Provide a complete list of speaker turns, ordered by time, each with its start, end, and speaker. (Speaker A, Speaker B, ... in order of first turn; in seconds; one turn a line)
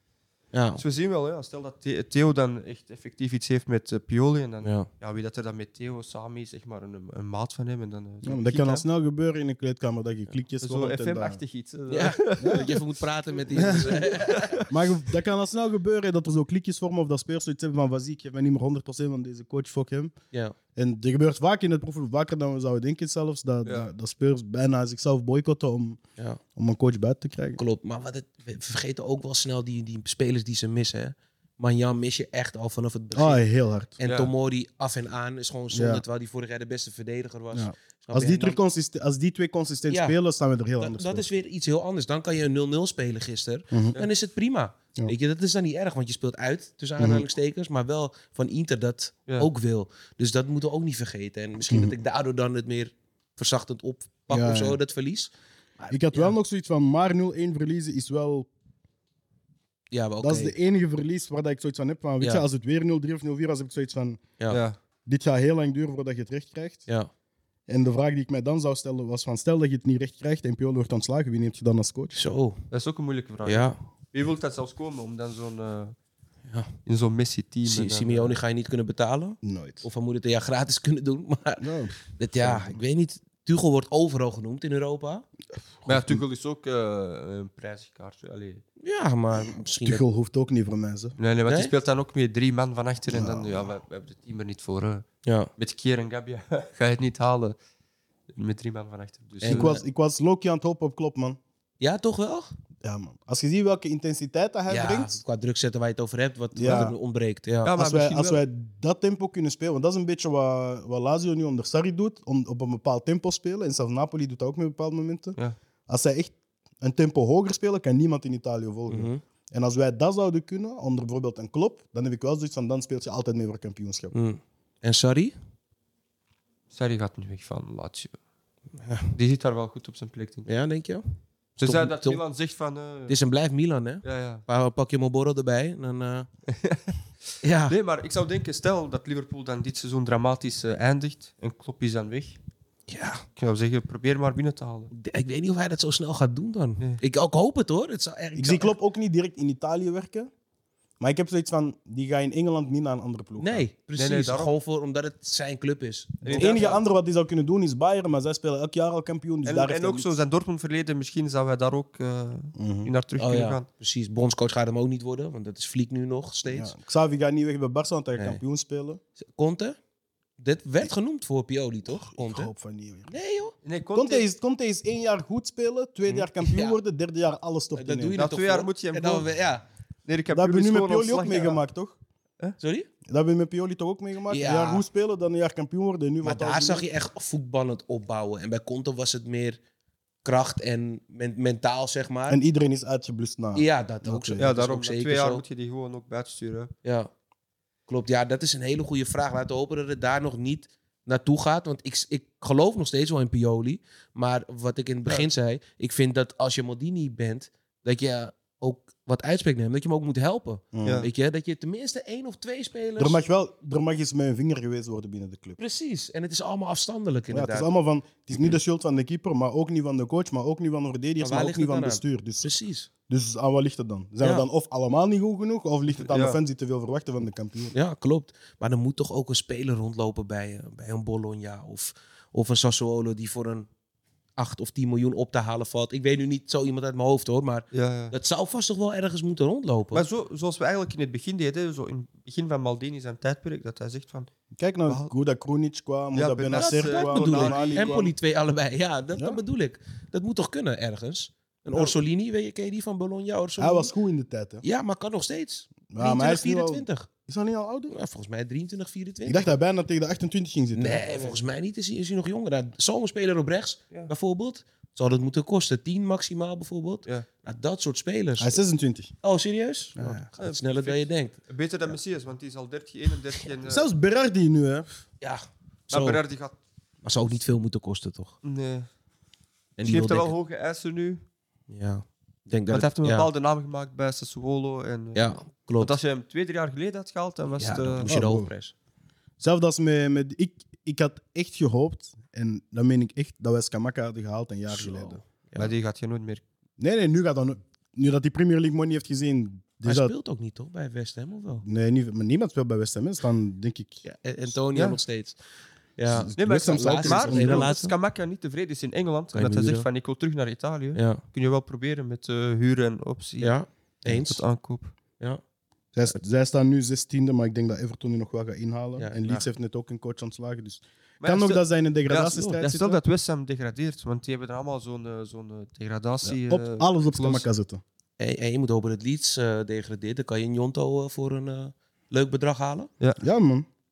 Speaker A: 0.5-0.8
Speaker B: 0.8-8.8
Speaker A: 4.6-4.9
Speaker C: 8.2-11.4
Speaker B: 10.6-12.8
Speaker A: 11.9-14.6
Speaker C: 12.4-12.7
Speaker B: 13.5-14.7
Speaker C: 13.5-20.1
Speaker C: 20.7-26.0
Speaker C: 26.5-27.6
Speaker A: 27.6-33.5
Speaker C: 33.1-34.0
Speaker A: 34.0-38.6
Speaker B: 34.0-34.3
Speaker C: 35.7-36.0
Speaker C: 37.5-41.2
Speaker A: 39.9-40.1
Speaker A: 40.8-56.3
Speaker C: 47.0-47.2
Speaker C: 51.7-51.9
Speaker C: 54.3-54.8
Speaker C: 55.9-58.5
Speaker A: 59.9-60.5
Speaker C: 60.2-64.2
Speaker B: 64.5-64.8
Speaker C: 65.0-66.9
Speaker C: 67.7-72.2
Speaker A: 72.1-72.6
Speaker B: 72.7-76.0
Speaker A: 73.4-73.8
Speaker A: 76.5-76.7
Speaker B: 76.8-78.4
Speaker A: 77.6-85.2
Speaker C: 79.4-79.8
Speaker C: 81.6-82.7
Speaker C: 85.8-86.2
Speaker B: 85.9-88.6
Speaker A: 88.8-90.0
Speaker C: 89.8-91.2
Speaker B: 91.2-95.0
Speaker A: 91.5-91.7
Speaker C: 93.1-93.7
Speaker A: 95.2-95.5
Speaker B: 95.6-97.6
Speaker B: 98.3-99.8
Speaker A: 99.4-99.8
Speaker C: 99.4-101.4
Speaker A: 101.8-102.5
Speaker C: 102.8-105.2
Speaker A: 104.7-107.7
Speaker C: 106.5-106.9
Speaker B: 106.7-106.9
Speaker B: 107.6-108.4
Speaker C: 107.7-124.1
Speaker A: 118.9-119.2
Speaker A: 124.1-125.3
Speaker B: 126.7-128.2
Speaker A: 128.8-129.1
Speaker B: 129.1-130.5
Speaker A: 130.4-131.0
Speaker A: 131.6-132.2
Speaker B: 131.6-133.2
Speaker A: 133.1-136.3
Speaker B: 134.0-134.4
Speaker B: 136.5-137.0
Speaker A: 137.4-137.8
Speaker B: 137.7-142.4
Speaker A: 142.9-143.2
Speaker B: 143.3-144.9
Speaker A: 144.9-148.7
Speaker C: 148.3-150.3
Speaker C: 151.0-153.7
Speaker A: 153.4-156.8
Speaker B: 153.9-154.5
Speaker B: 156.2-156.8
Speaker C: 156.3-160.1
Speaker B: 159.4-163.7
Speaker C: 162.6-162.9
Speaker A: 163.2-166.7
Speaker C: 166.5-169.0
Speaker A: 169.2-169.8
Speaker A: 170.4-172.5
Speaker C: 171.9-173.1
Speaker A: 173.1-173.5
Speaker B: 173.6-174.2
Speaker C: 173.9-178.2
Speaker A: 176.1-176.8
Speaker A: 177.8-179.6
Speaker B: 178.2-179.3
Speaker B: 180.1-181.6
Speaker C: 180.3-182.0
Speaker A: 182.6-182.9
Speaker C: 183.1-186.8
Speaker A: 184.3-184.8
Speaker A: 186.2-189.6
Speaker A: 190.2-192.4
Speaker C: 192.3-194.5
Speaker A: 193.5-195.4
Speaker B: 194.4-196.7
Speaker A: 196.8-197.1
Speaker A: 197.9-213.2
Speaker C: 210.7-211.1
Speaker B: 210.8-211.1
Speaker C: 213.0-215.6
Speaker A: 215.6-217.7
Speaker C: 217.3-222.5
Speaker A: 221.2-222.9
Speaker C: 223.1-227.7
Speaker B: 226.0-226.4
Speaker A: 227.7-233.7
Speaker A: 234.4-240.0
Speaker B: 237.7-238.1
Speaker B: 239.9-244.3
Speaker C: 244.6-248.1
Speaker B: 246.1-248.1
Speaker A: 246.5-253.9
Speaker C: 253.6-254.6
Speaker A: 254.6-257.1
Speaker C: 255.9-257.9
Speaker A: 257.9-259.5
Speaker C: 259.2-261.2
Speaker A: 260.7-268.6
Speaker B: 261.1-261.4
Speaker C: 268.4-269.1
Speaker A: 269.2-271.4
Speaker C: 269.9-270.2
Speaker B: 270.4-273.8
Speaker C: 273.6-275.0
Speaker A: 275.2-276.2
Speaker B: 275.9-276.6
Speaker A: 277.0-278.4
Speaker B: 278.4-278.9
Speaker A: 279.8-280.3
Speaker B: 279.8-281.2
Speaker A: 281.7-283.3
Speaker B: 282.7-288.1
Speaker A: 285.1-285.9
Speaker A: 287.6-288.7
Speaker C: 288.1-288.5
Speaker C: 289.4-295.2
Speaker A: 294.7-295.7
Speaker B: 295.6-296.4
Speaker C: 296.8-300.1
Speaker A: 299.8-301.6
Speaker C: 301.6-304.0
Speaker A: 304.0-305.4
Speaker B: 304.7-305.0
Speaker A: 306.0-307.9
Speaker C: 306.1-307.7
Speaker B: 306.4-313.5
Speaker A: 309.3-309.9
Speaker A: 310.9-311.2
Speaker A: 313.4-314.4
Speaker B: 314.1-314.9
Speaker C: 315.9-323.0
Speaker A: 319.0-319.4
Speaker B: 321.2-327.4
Speaker C: 326.2-327.8
Speaker A: 328.2-332.9
Speaker C: 333.2-333.6